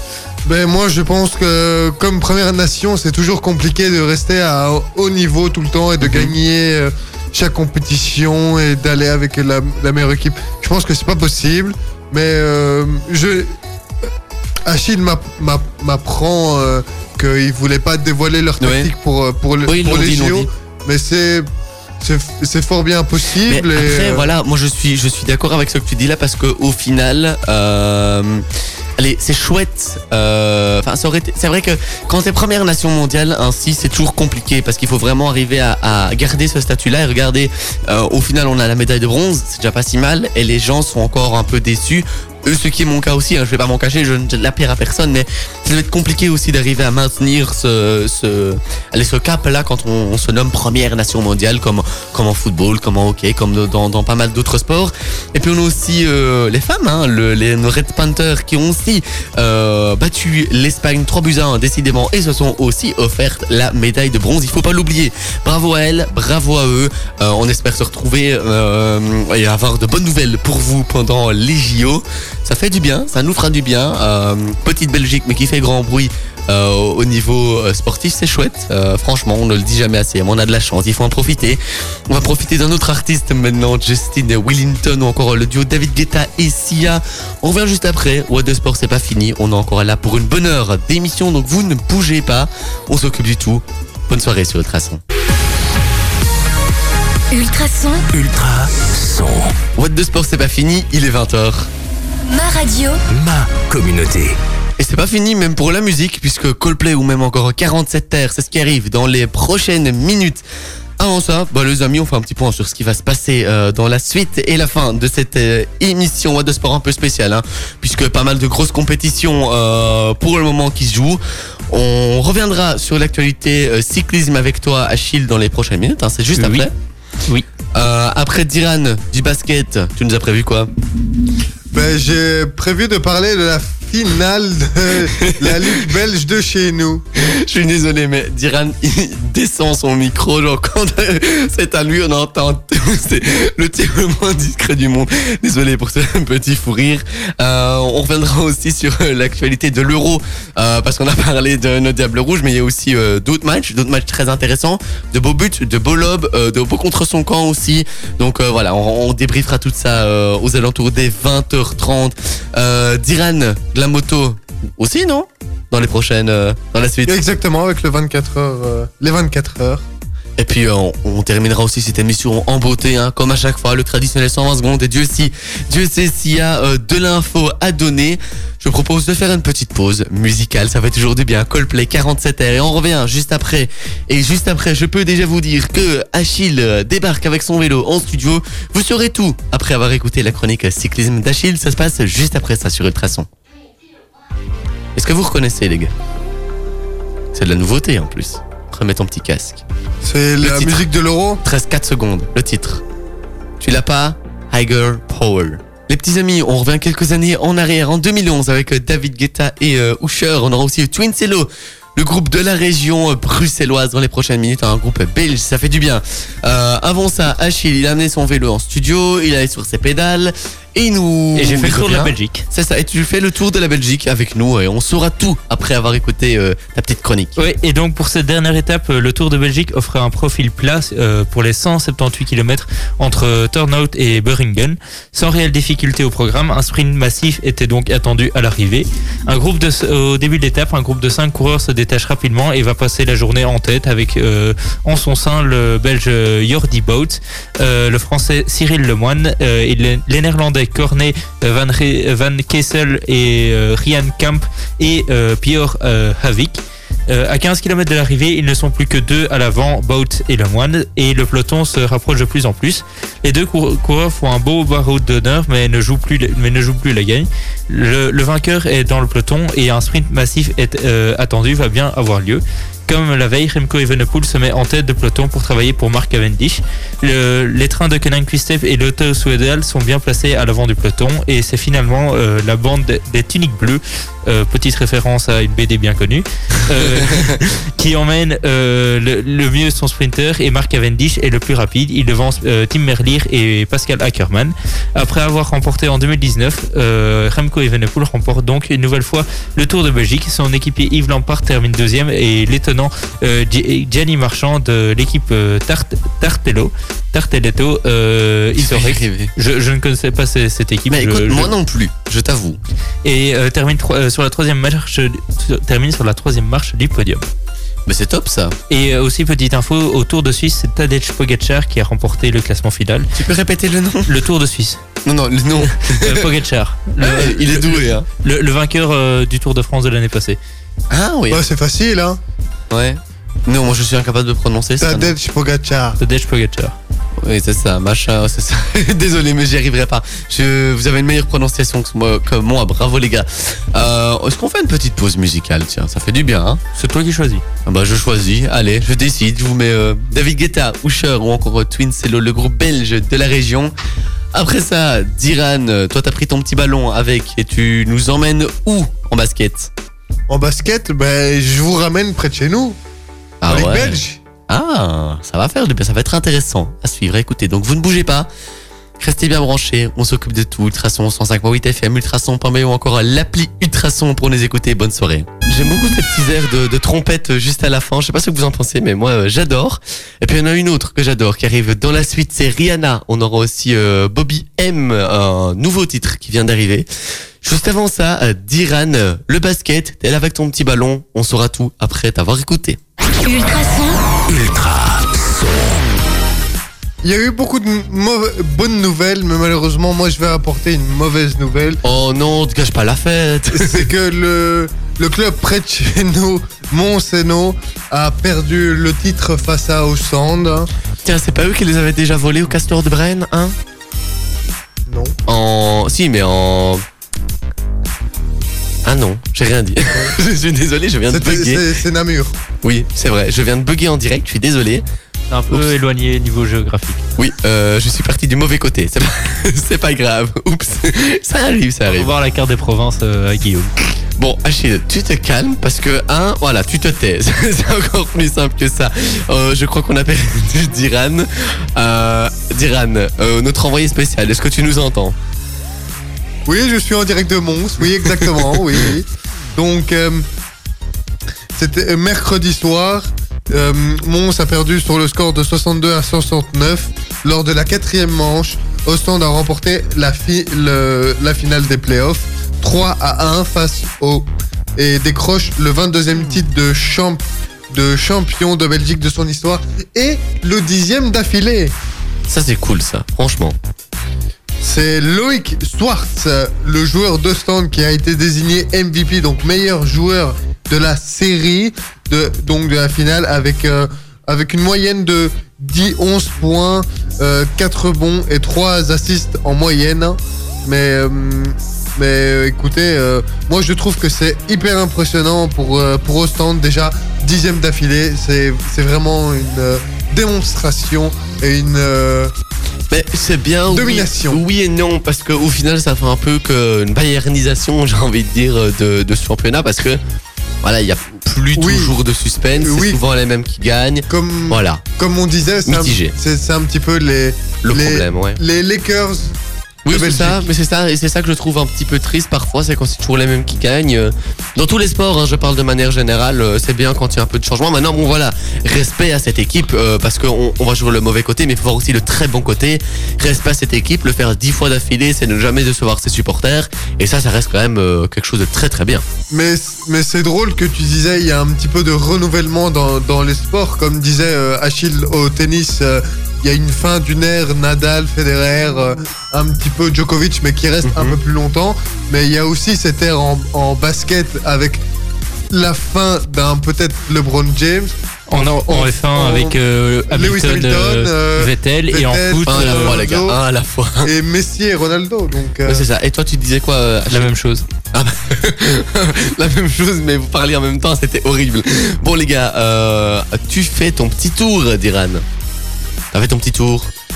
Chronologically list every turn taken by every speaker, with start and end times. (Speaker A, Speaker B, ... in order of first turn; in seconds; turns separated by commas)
Speaker A: 0.5-13.5, Speaker B: 6.0-6.3, Speaker A: 14.7-21.5, Speaker B: 18.6-18.9, Speaker B: 19.7-20.5, Speaker A: 22.0-24.3, Speaker B: 23.5-28.4, Speaker B: 29.0-95.0, Speaker C: 97.3-98.0, Speaker D: 98.1-99.5, Speaker B: 99.8-101.7, Speaker C: 102.3-103.0, Speaker D: 103.1-104.4, Speaker B: 104.8-110.4, Speaker B: 111.0-126.7, Speaker E: 126.4-126.7, Speaker B: 127.7-130.7, Speaker A: 131.7-137.0, Speaker B: 135.2-135.6, Speaker B: 137.2-167.2, Speaker A: 167.1-169.8, Speaker B: 170.4-193.3, Speaker B: 195.0-195.9, Speaker B: 197.3-199.6, Speaker A: 200.0-201.4, Speaker B: 200.4-200.9, Speaker B: 201.4-202.8, Speaker B: 203.6-227.4, Speaker E: 221.4-222.4, Speaker E: 227.4-311.5, Speaker B: 286.9-287.3, Speaker B: 308.6-309.3, Speaker B: 310.9-312.6, Speaker E: 313.0-317.3, Speaker B: 317.9-318.6, Speaker E: 318.7-323.1, Speaker B: 323.2-324.1, Speaker E: 324.1-324.8, Speaker B: 325.1-326.3, Speaker E: 325.7-330.4, Speaker B: 327.0-328.1, Speaker B: 330.9-331.4, Speaker A: 331.3-332.2, Speaker B: 332.7-335.1, Speaker A: 334.8-336.0, Speaker E: 336.0-336.8, Speaker B: 337.2-346.6, Speaker E: 346.8-347.4, Speaker B: 347.7-353.7, Speaker B: 354.3-359.7, Speaker A: 360.3-362.8, Speaker B: 363.4-368.3, Speaker A: 363.5-364.2, Speaker B: 369.0-386.9, Speaker B: 387.4-392.8, Speaker C: 393.2-394.0, Speaker D: 394.3-395.8, Speaker A: 397.0-401.8, Speaker B: 401.8-403.9, Speaker A: 403.5-410.7, Speaker B: 411.0-413.6, Speaker A: 414.9-415.2, Speaker B: 415.3-416.8, Speaker B: 418.9-421.6, Speaker A: 421.1-422.4, Speaker B: 422.6-424.9, Speaker E: 425.3-427.0, Speaker B: 427.2-432.1, Speaker E: 431.9-433.7, Speaker B: 434.2-445.2, Speaker A: 446.5-450.3, Speaker A: 451.6-471.7, Speaker B: 472.3-473.6, Speaker A: 474.6-502.3, Speaker B: 502.9-510.0, Speaker A: 503.7-504.4, Speaker B: 510.6-514.8, Speaker A: 511.6-511.9, Speaker A: 512.6-513.0, Speaker A: 514.1-519.4, Speaker B: 515.7-516.1, Speaker B: 517.6-518.4, Speaker B: 519.9-539.0, Speaker A: 519.9-520.5, Speaker A: 539.3-554.8, Speaker B: 550.8-551.2, Speaker A: 555.5-563.4, Speaker E: 558.3-563.0, Speaker B: 562.5-564.1, Speaker A: 564.0-565.9, Speaker B: 565.7-567.3, Speaker E: 567.1-567.6, Speaker B: 567.9-575.2, Speaker B: 576.1-576.9